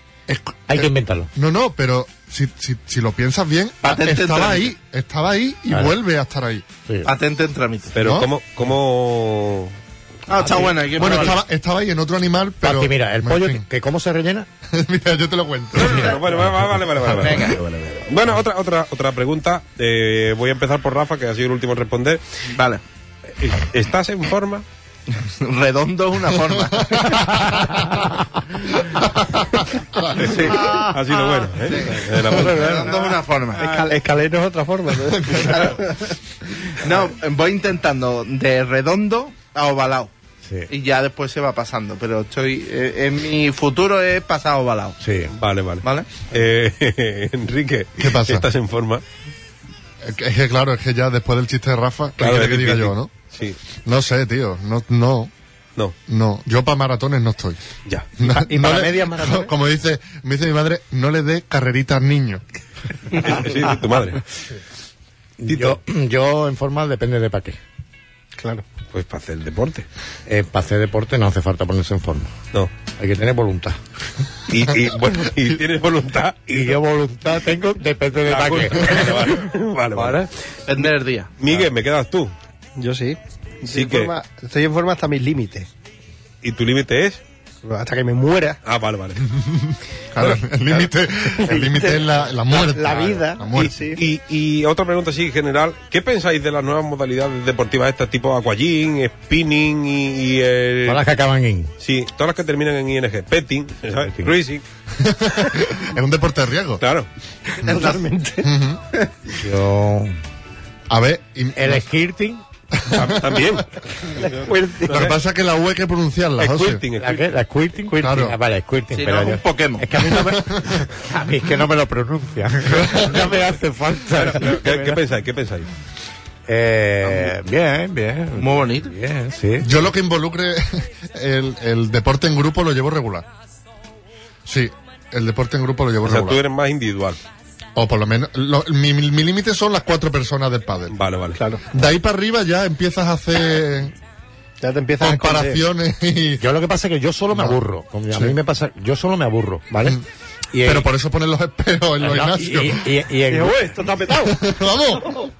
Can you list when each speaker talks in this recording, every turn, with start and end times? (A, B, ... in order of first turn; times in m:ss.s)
0:00.3-0:06.7 A
0:00.7-0:01.3 B
0:03.8-0:04.7 C
0:06.8-0:07.1 B
0:07.0-0:07.9 C
0:07.9-0:09.7 D
0:08.0-0:08.3 A
0:10.3-0:11.4 C
0:10.4-0:11.2 B
0:10.9-0:13.6 A
0:12.6-0:14.5 B
0:14.7-0:16.1 A
0:15.7-0:22.2 D
0:15.9-0:16.2 C
0:17.1-0:17.6 C
0:22.5-0:22.8 C
0:23.4-0:24.6 D
0:25.1-0:27.4 C
0:26.8-0:27.9 A
0:29.8-0:30.5 A
0:30.2-0:32.9 D
0:30.2-0:30.8 C
0:31.6-0:33.8 C
0:32.3-0:32.9 E
0:33.5-0:35.7 E
0:35.1-0:35.6 A
0:35.3-0:40.1 C
0:40.7-0:45.0 C
0:45.0-0:45.3 B
0:45.4-0:49.0 D
0:45.8-0:46.2 C
0:48.0-0:48.4 A
0:50.0-0:53.1 A
0:52.2-0:53.6 D
0:53.8-0:55.3 A
0:56.1-0:57.6 A
0:58.2-1:02.4 A
0:58.2-0:59.5 E
1:03.1-1:04.2 D
1:05.4-1:07.6 B
1:05.5-1:05.8 D
1:08.4-1:08.6 E
1:08.9-1:09.8 D
1:10.3-1:12.3 B
1:12.8-1:13.8 B
1:14.5-1:16.8 D
1:16.5-1:19.5 B
1:18.2-1:20.3 D
1:20.7-1:21.3 C
1:21.4-1:22.3 D
1:22.8-1:25.7 E
1:23.7-1:24.1 D
1:26.4-1:27.2 D
1:27.6-1:28.6 E
1:28.6-1:29.3 D
1:29.4-1:33.9 A
1:31.4-1:34.0 E
1:33.9-1:41.0 D
1:40.8-1:41.7 B
1:41.8-1:44.6 D
1:45.0-1:46.8 A
1:46.8-1:47.1 D
1:47.5-1:48.5 E
1:47.6-1:48.8 A
1:49.3-1:50.2 B
1:50.9-1:51.8 A
1:51.6-1:52.4 B
1:52.8-1:53.6 A
1:52.9-1:55.2 D
1:54.4-1:55.0 E
1:54.9-1:56.8 A
1:56.4-1:57.3 D
1:57.0-2:05.0 B
1:58.0-1:58.4 A
1:58.9-2:00.1 C
2:00.1-2:00.8 A
2:02.9-2:03.2 A
2:04.1-2:05.7 D
2:06.5-2:09.8 B
2:07.0-2:07.3 D
2:08.4-2:09.0 C
2:09.6-2:13.3 A
2:14.4-2:16.4 A
2:16.0-2:17.2 D
2:17.7-2:21.0 A
2:20.9-2:21.4 D
2:21.4-2:21.6 E
2:21.7-2:23.9 A
2:24.6-2:25.6 E
2:25.0-2:26.4 A
2:26.4-2:30.0 B
2:30.5-2:30.9 B
2:30.6-2:32.9 A
2:32.0-2:33.7 B
2:33.3-2:34.4 E
2:34.2-2:35.1 A